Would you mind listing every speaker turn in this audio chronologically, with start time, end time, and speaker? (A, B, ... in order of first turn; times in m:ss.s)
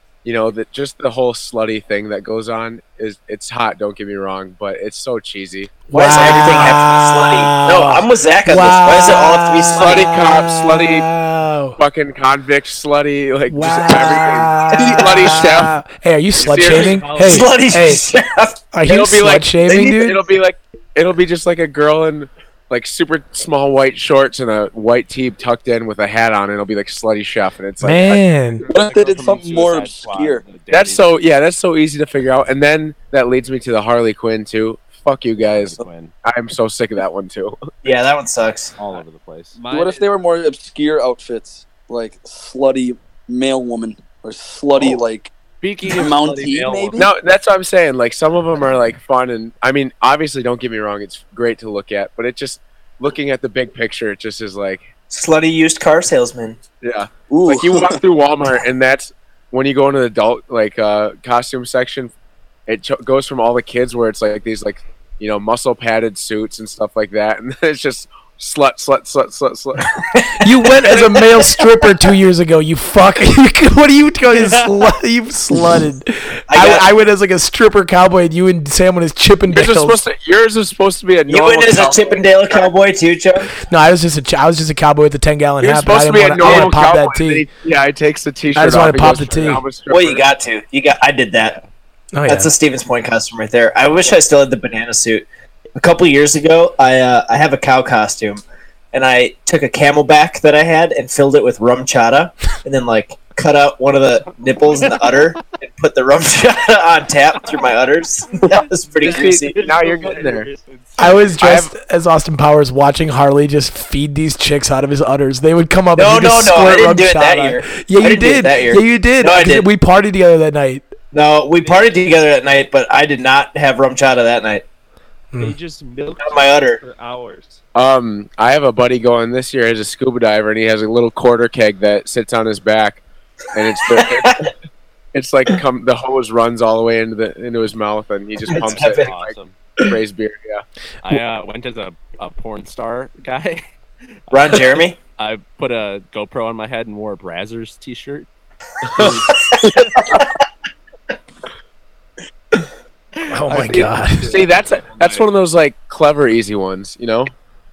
0:00.2-0:05.9 A
0:05.9-0:11.8 B
0:05.9-0:10.0 C
0:09.7-0:11.1 A
0:11.8-0:15.7 A
0:13.5-0:18.0 B
0:16.4-0:17.0 A
0:16.5-0:17.5 D
0:17.2-0:18.6 C
0:18.7-0:20.2 B
0:18.8-0:28.2 A
0:27.8-0:28.6 B
0:28.6-0:31.1 E
0:28.7-0:30.4 F
0:30.7-0:37.7 A
0:35.5-0:36.1 E
0:37.8-0:38.7 C
0:38.8-0:39.6 E
0:39.5-0:40.1 D
0:39.7-0:45.3 F
0:45.6-0:47.1 E
0:45.9-0:47.1 F
0:47.0-0:54.9 A
0:55.1-0:56.6 C
0:56.8-1:02.1 A
0:57.3-0:58.0 F
1:02.7-1:09.9 A
1:10.1-1:11.6 C
1:10.4-1:20.0 B
1:14.3-1:14.8 D
1:16.5-1:16.9 C
1:19.5-1:22.6 A
1:21.3-1:23.5 C
1:23.7-1:27.4 B
1:25.6-1:30.2 A
1:26.4-1:26.7 C
1:28.5-1:29.6 B
1:29.9-1:31.6 C
1:32.1-1:32.5 B
1:32.3-1:38.4 C
1:38.9-1:49.6 C
1:44.6-1:45.4 D
1:48.4-1:51.4 D
1:49.0-1:50.5 A
1:51.0-2:00.9 B
1:51.4-1:51.7 A
1:56.0-1:59.7 C
2:01.1-2:04.6 C
2:01.6-2:01.9 D
2:05.4-2:07.6 D
2:06.2-2:06.8 C
2:07.7-2:14.5 A
2:13.8-2:14.4 C
2:15.1-2:20.6 A
2:18.4-2:19.5 E
2:18.5-2:19.1 C
2:21.0-2:23.6 E
2:24.3-2:28.3 E
2:24.3-2:25.0 C
2:28.8-2:29.3 A
2:29.0-2:29.3 E
2:29.0-2:30.3 C
2:33.3-2:34.4 B
2:33.5-2:35.2 E
2:33.7-2:37.3 A